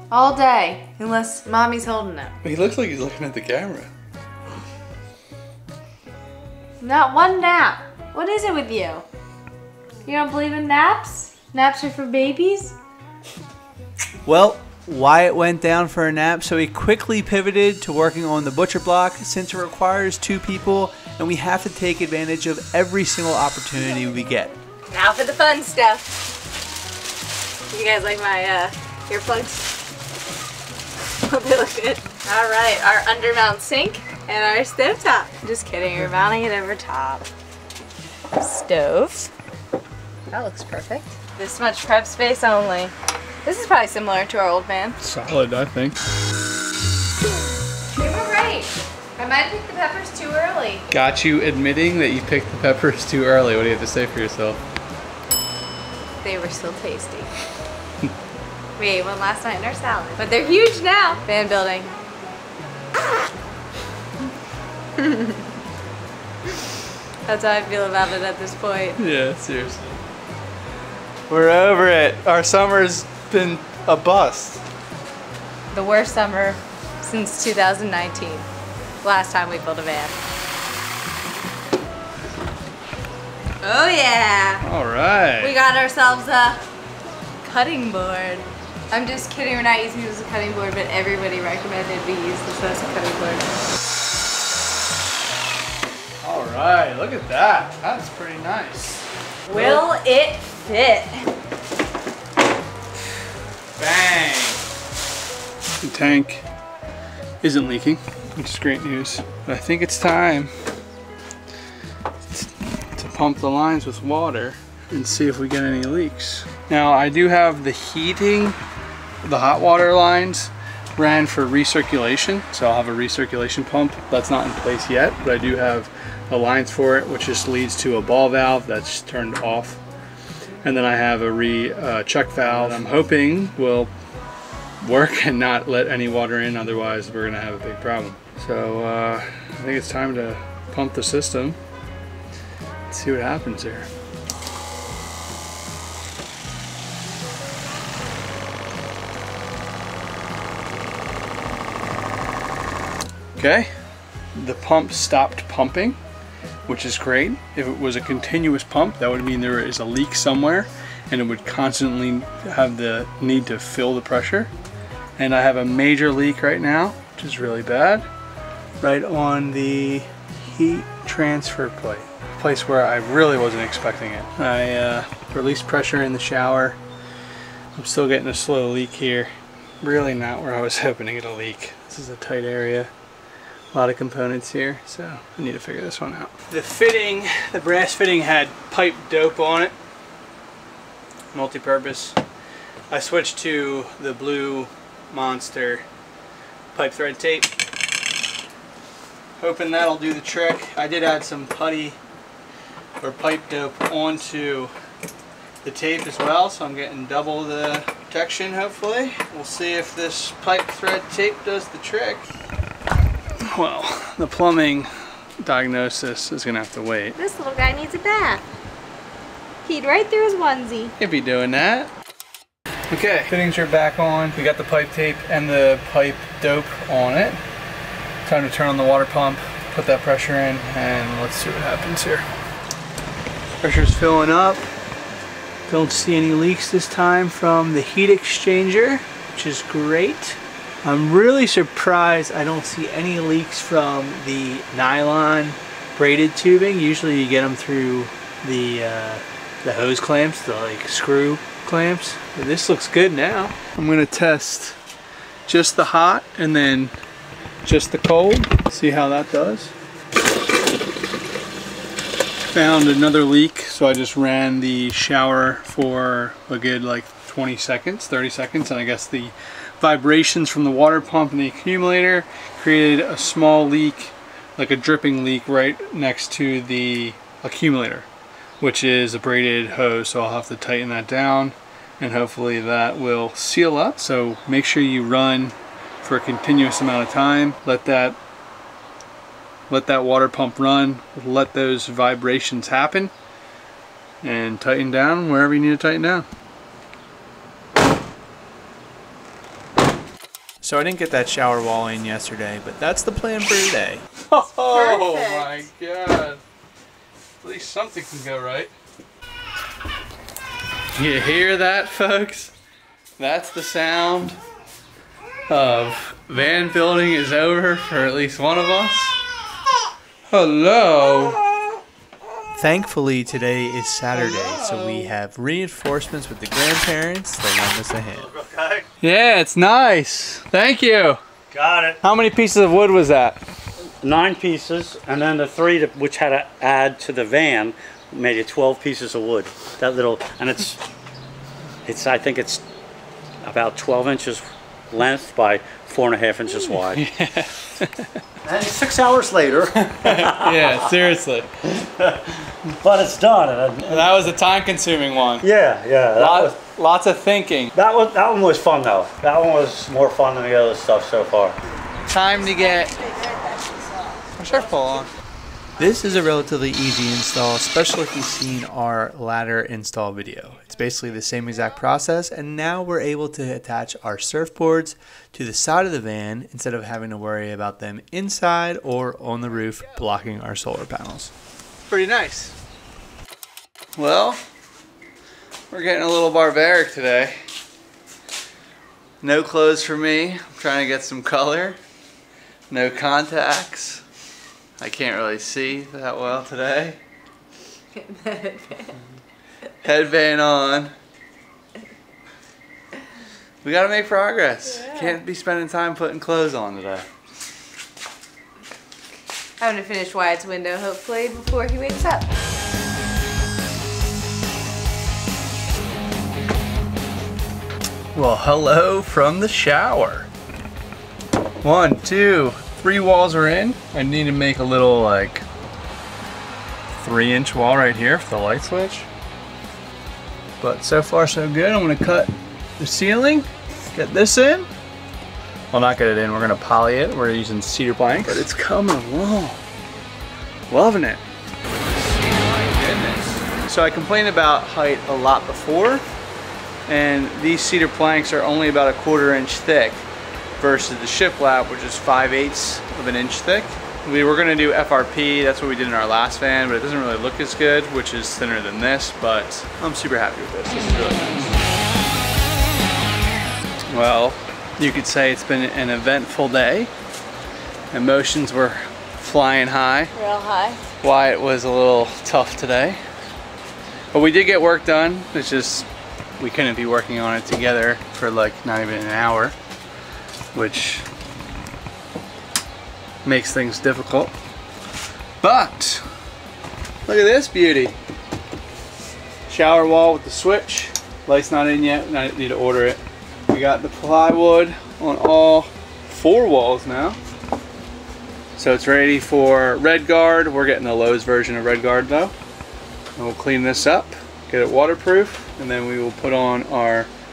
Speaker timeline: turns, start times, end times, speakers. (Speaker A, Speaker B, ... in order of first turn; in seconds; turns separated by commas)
Speaker A: 0.1-2.4, Speaker B: 2.4-3.9, Speaker A: 6.8-9.0, Speaker A: 10.1-12.8, Speaker C: 14.2-24.6, Speaker A: 24.9-26.2, Speaker A: 27.7-29.7, Speaker A: 31.2-37.3, Speaker A: 38.4-39.3, Speaker A: 40.3-45.0, Speaker B: 45.0-46.0, Speaker A: 47.9-50.9, Speaker B: 50.9-54.6, Speaker A: 56.2-57.3, Speaker A: 58.8-61.9, Speaker A: 65.0-65.5, Speaker A: 67.3-69.0, Speaker B: 69.0-70.0, Speaker B: 71.3-74.6, Speaker A: 75.7-78.5, Speaker A: 79.0-80.2, Speaker A: 83.6-84.7, Speaker B: 84.6-85.5, Speaker A: 85.4-86.6, Speaker A: 87.4-93.5, Speaker B: 96.2-99.8, Speaker A: 99.5-101.3, Speaker B: 103.8-104.6, Speaker B: 105.8-106.4, Speaker B: 107.4-110.5, Speaker B: 112.3-118.6, Speaker B: 119.2-129.8, Speaker B: 130.6-133.9, Speaker B: 134.8-141.6, Speaker B: 142.9-143.9, Speaker B: 153.4-153.7, Speaker B: 154.4-156.0, Speaker B: 156.7-164.5, Speaker B: 165.2-168.1, Speaker B: 168.8-176.8, Speaker B: 177.8-179.3, Speaker B: 179.8-182.9, Speaker B: 183.7-189.7, Speaker B: 191.3-192.2, Speaker B: 192.9-195.8, Speaker B: 196.7-197.5, Speaker B: 199.4-202.0, Speaker B: 203.0-204.7, Speaker B: 205.6-212.3, Speaker B: 213.4-214.9, Speaker B: 215.4-217.2, Speaker A: 217.2-218.4, Speaker A: 219.7-220.9, Speaker B: 221.0-221.9, Speaker B: 222.9-227.4, Speaker B: 228.3-232.3, Speaker B: 233.6-234.7, Speaker B: 235.7-254.8, Speaker B: 255.5-256.9, Speaker B: 257.6-259.7, Speaker B: 262.5-278.1, Speaker B: 278.6-288.2, Speaker B: 289.7-293.1, Speaker B: 294.2-296.3, Speaker C: 300.6-304.0, Speaker B: 304.3-306.4, Speaker A: 304.6-305.6, Speaker B: 307.4-308.7, Speaker B: 310.9-312.5, Speaker B: 313.2-314.4, Speaker B: 315.5-319.2, Speaker B: 320.3-321.4, Speaker C: 322.6-328.3, Speaker B: 324.2-325.1, Speaker D: 328.1-328.9, Speaker B: 329.0-331.2, Speaker D: 331.5-332.0, Speaker B: 332.0-333.4, Speaker D: 334.0-340.8, Speaker D: 341.9-342.6, Speaker D: 343.4-347.1, Speaker B: 346.7-348.0, Speaker D: 348.4-350.9, Speaker B: 349.8-351.5, Speaker D: 351.8-352.2, Speaker D: 352.8-354.2, Speaker B: 353.9-355.5, Speaker D: 355.3-356.6, Speaker B: 356.2-357.7, Speaker D: 357.8-361.6, Speaker B: 362.1-363.0, Speaker B: 364.4-365.1, Speaker C: 365.8-381.3, Speaker B: 381.9-382.6, Speaker B: 384.0-384.4, Speaker B: 385.7-387.4, Speaker B: 389.2-391.8, Speaker B: 392.7-394.0, Speaker B: 394.8-397.0, Speaker A: 397.9-399.0, Speaker B: 399.8-400.9, Speaker B: 403.6-407.0, Speaker A: 404.6-405.2, Speaker A: 409.6-412.3, Speaker B: 418.1-420.3, Speaker B: 421.6-425.4, Speaker B: 427.0-429.1, Speaker B: 430.6-434.7, Speaker B: 435.7-439.6, Speaker B: 440.7-441.2, Speaker B: 442.2-446.0, Speaker B: 446.9-450.1, Speaker B: 450.6-461.6, Speaker B: 463.9-466.9, Speaker B: 467.9-470.1, Speaker A: 470.1-470.9, Speaker B: 471.0-473.0, Speaker B: 474.1-475.9, Speaker B: 476.4-479.5, Speaker B: 480.5-481.1, Speaker B: 483.2-484.3, Speaker B: 485.4-486.1, Speaker B: 487.1-488.0, Speaker B: 489.5-497.2, Speaker B: 498.6-502.3, Speaker B: 503.2-507.1